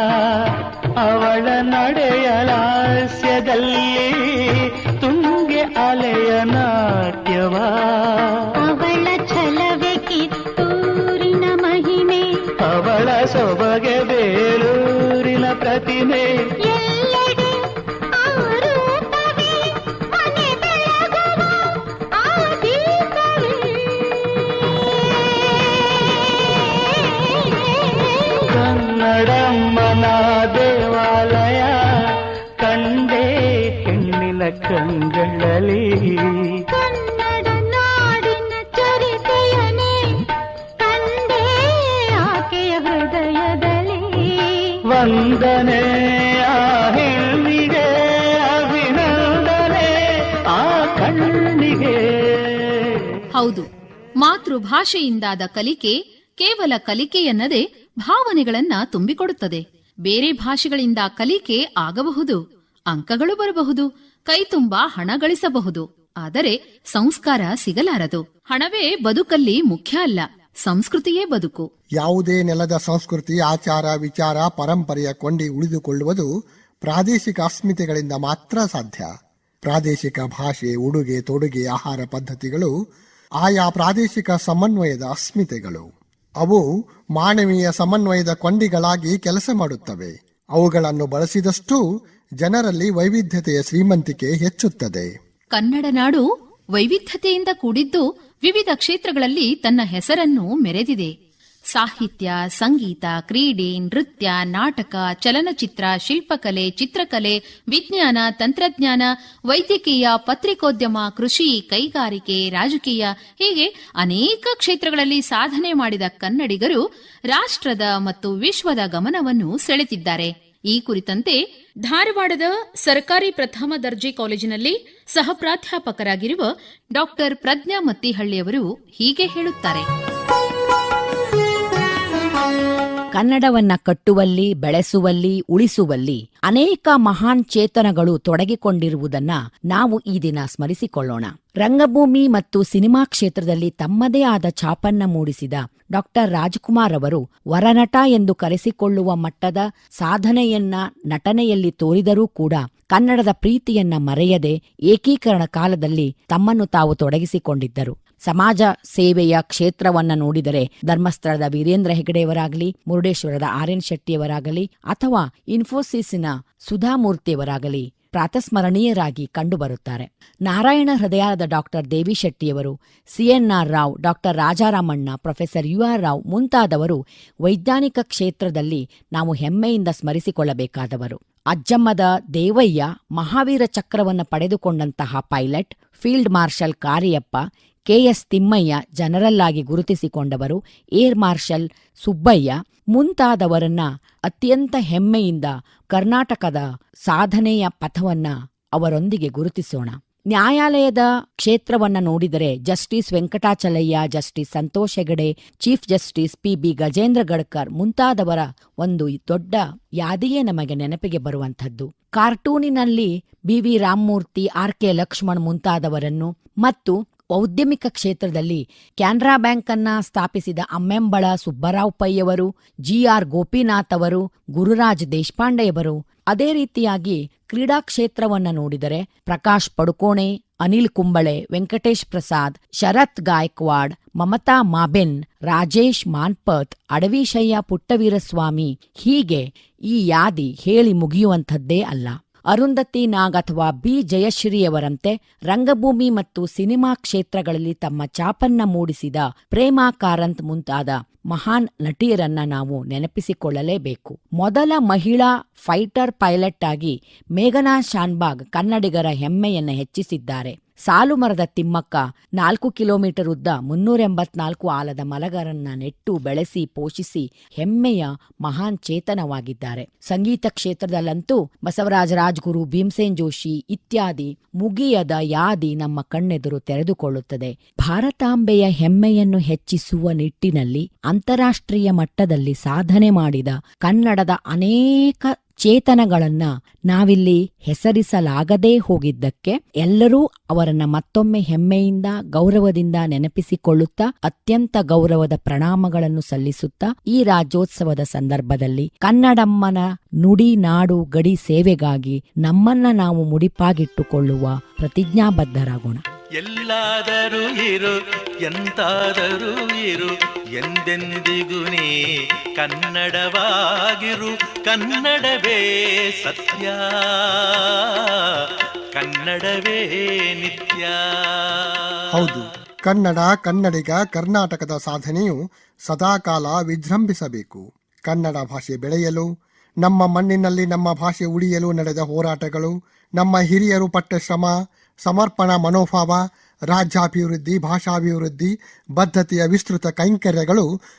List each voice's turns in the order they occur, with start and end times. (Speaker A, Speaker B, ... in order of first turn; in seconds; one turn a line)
Speaker A: 1.0-8.3
Speaker B: 8.6-12.3
Speaker A: 12.7-16.3
Speaker B: 16.6-17.6
Speaker B: 18.2-21.7
Speaker B: 22.2-24.0
Speaker B: 25.0-28.4
Speaker A: 28.5-31.8
Speaker A: 32.6-33.3
Speaker A: 33.8-36.4
Speaker B: 36.8-40.1
Speaker B: 40.8-44.4
Speaker A: 44.9-50.0
Speaker A: 50.5-52.7
Speaker C: 53.3-53.7
Speaker C: 54.2-62.4
Speaker C: 62.9-71.7
Speaker D: 72.0-76.3
Speaker D: 76.8-79.1
Speaker D: 79.7-82.7
Speaker D: 83.4-85.8
Speaker D: 87.2-91.8
Speaker D: 92.4-95.1
Speaker C: 95.5-101.1
Speaker C: 101.7-129.9
Speaker E: 133.1-306.0
Speaker F: 306.4-307.9
Speaker F: 308.4-311.9
Speaker F: 312.6-318.1
Speaker F: 318.9-320.9
Speaker D: 322.1-329.3
Speaker D: 329.8-340.7